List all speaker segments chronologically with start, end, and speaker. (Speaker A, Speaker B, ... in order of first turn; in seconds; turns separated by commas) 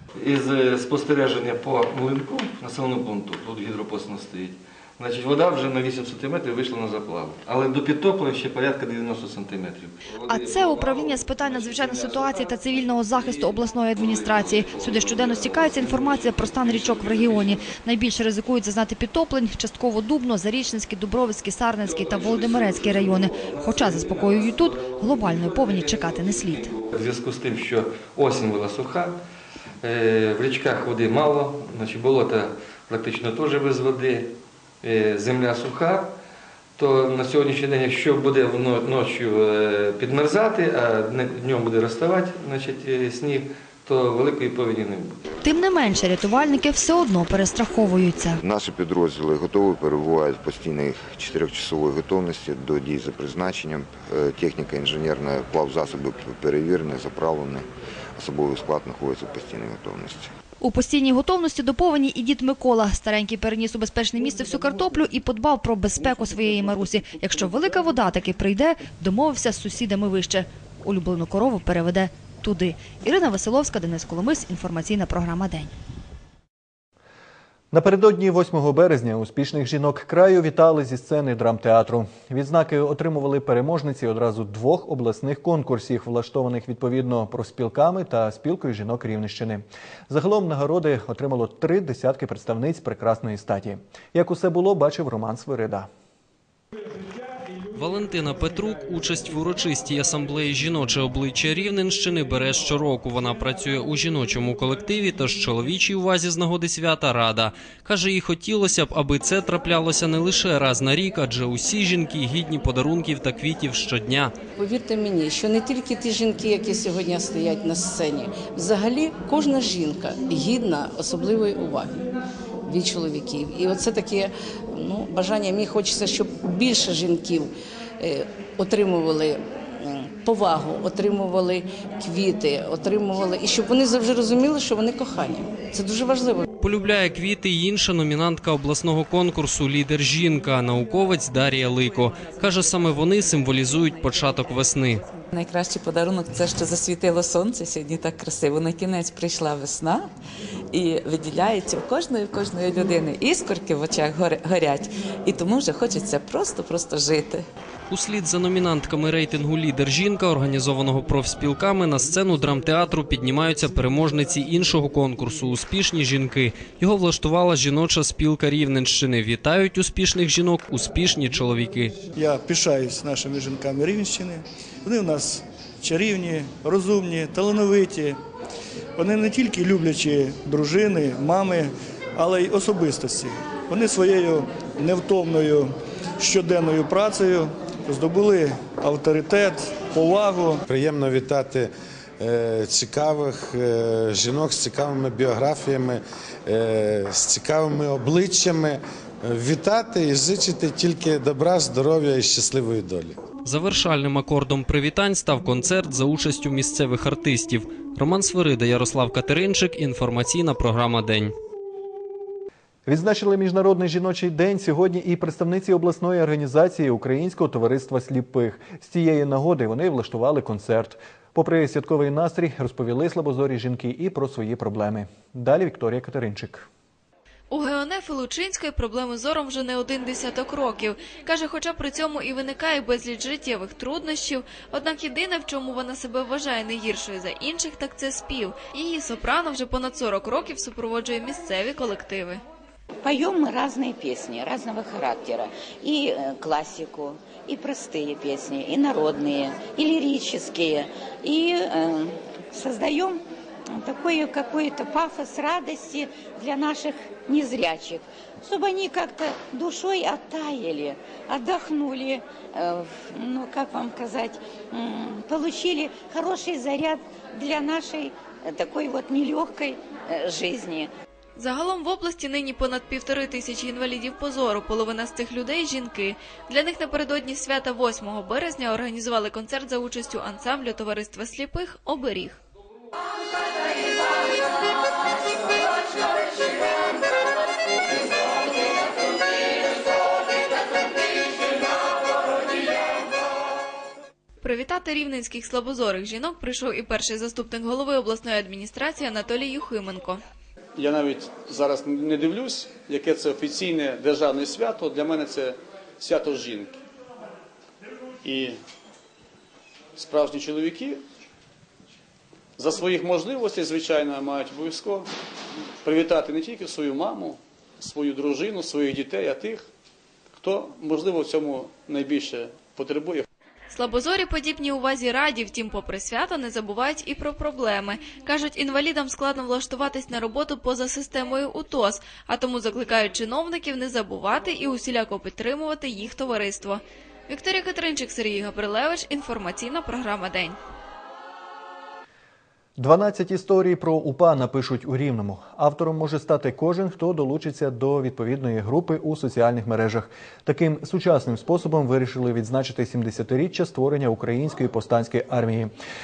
Speaker A: 0.2-10.1, Speaker B: 10.2-26.7, Speaker A: 26.9-29.2, Speaker A: 29.8-36.1, Speaker A: 36.8-45.2, Speaker B: 45.4-48.4, Speaker C: 48.4-60.3, Speaker B: 60.6-75.7, Speaker D: 77.7-95.9, Speaker E: 97.7-114.3, Speaker F: 114.6-122.1, Speaker F: 122.6-136.4, Speaker E: 136.6-145.0, Speaker G: 145.3-150.1, Speaker G: 150.7-157.4, Speaker E: 157.9-172.0, Speaker H: 172.1-178.2, Speaker H: 178.9-190.6, Speaker I: 190.7-203.2, Speaker E: 203.4-211.3, Speaker D: 212.9-226.7, Speaker J: 227.5-242.4, Speaker K: 243.0-253.2, Speaker K: 253.7-270.9, Speaker J: 271.4-282.4, Speaker J: 294.4-300.2, Speaker L: 300.8-306.8, Speaker L: 308.2-308.6, Speaker L: 310.0-311.0, Speaker L: 312.6-315.1, Speaker L: 315.8-319.6, Speaker L: 320.4-323.2, Speaker J: 323.7-340.6, Speaker D: 342.8-355.7